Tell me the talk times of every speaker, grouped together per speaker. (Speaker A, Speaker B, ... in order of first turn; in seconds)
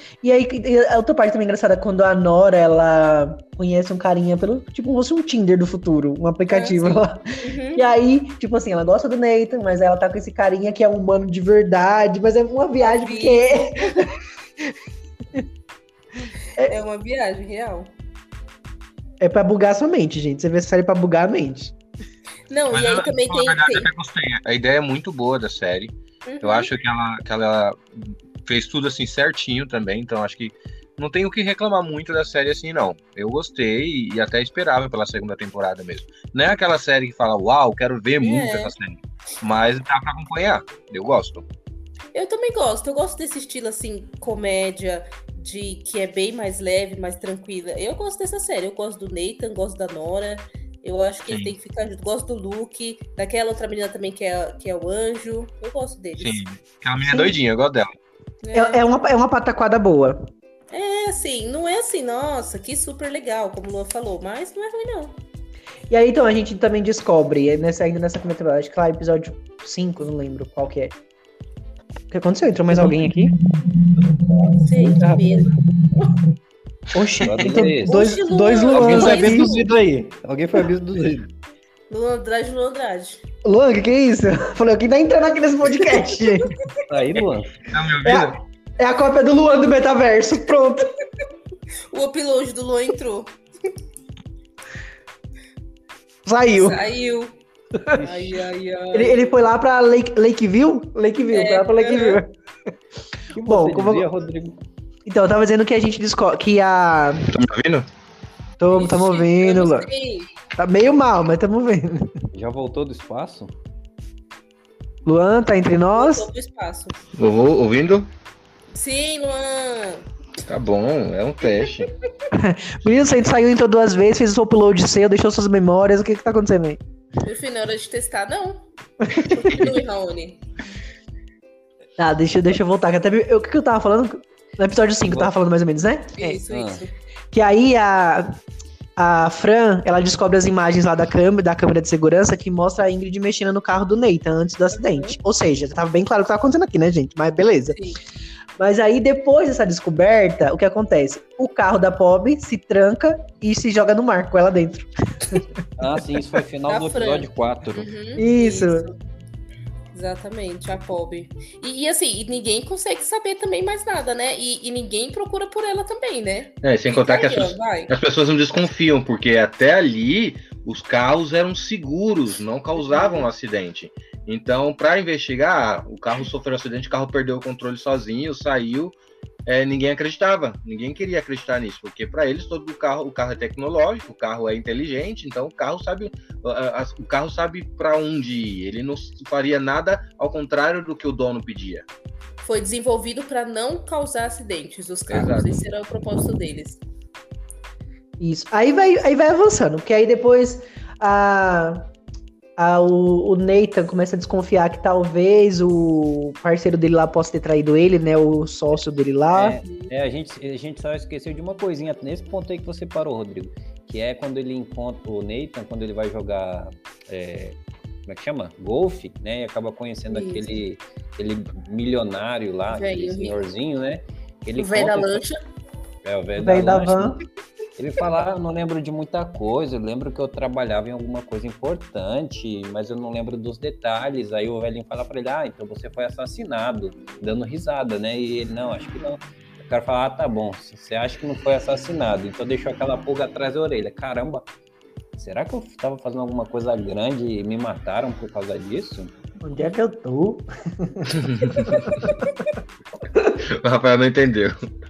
Speaker A: 0.2-14.1, 19.2-21.7, 57.0-57.4, 58.5-60.2, 65.9-70.9, 72.1-73.3, 74.8-75.2, 76.9-79.6, 83.4-86.5, 88.0-90.9, 96.3-96.9, 97.8-98.1, 98.9-102.3, 103.4-104.1, 105.1-107.3, 108.6-109.9, 110.6-112.1, 115.1-116.3, 122.3-126.8, 129.1-129.5, 132.0-136.4, 137.3-138.4, 139.0-147.8, 148.6-155.4, 158.2-158.9, 198.2-201.9, 202.6-209.6, 226.4-227.2, 249.4-251.8
Speaker B: 6.5-7.8, 12.8-14.1, 16.6-17.9, 22.5-23.9, 26.3-26.7, 38.2-38.7, 42.1-56.4, 58.4-58.8, 60.7-65.2, 74.6-76.2, 77.8-79.7, 81.9-83.2, 86.2-86.7, 91.9-93.3, 96.5-97.3, 97.9-99.3, 101.3-102.2, 108.8-110.3, 115.9-117.0, 118.8-120.0, 121.4-121.7, 127.2-128.7, 129.3-130.4, 136.2-136.9, 144.7-145.2, 147.7-148.0, 156.7-159.0, 159.9-167.9, 172.9-173.3, 192.4-196.8, 209.7-209.9, 220.1-220.6, 222.7-223.4, 224.6-225.4
Speaker C: 22.7-41.5, 51.3-51.5, 56.2-57.9, 87.7-88.4, 107.3-107.9, 117.2-118.1, 120.5-121.9, 129.4-129.7, 166.6-191.9, 195.1-195.5, 251.2-251.9, 253.3-254.6
Speaker D: 77.2-78.0, 78.7-81.3, 86.9-87.6, 103.3-104.7, 112.3-113.5, 135.1-135.3, 136.5-136.8, 155.8-157.9, 209.3-225.2, 226.0-227.2, 227.8-244.5, 245.2-249.1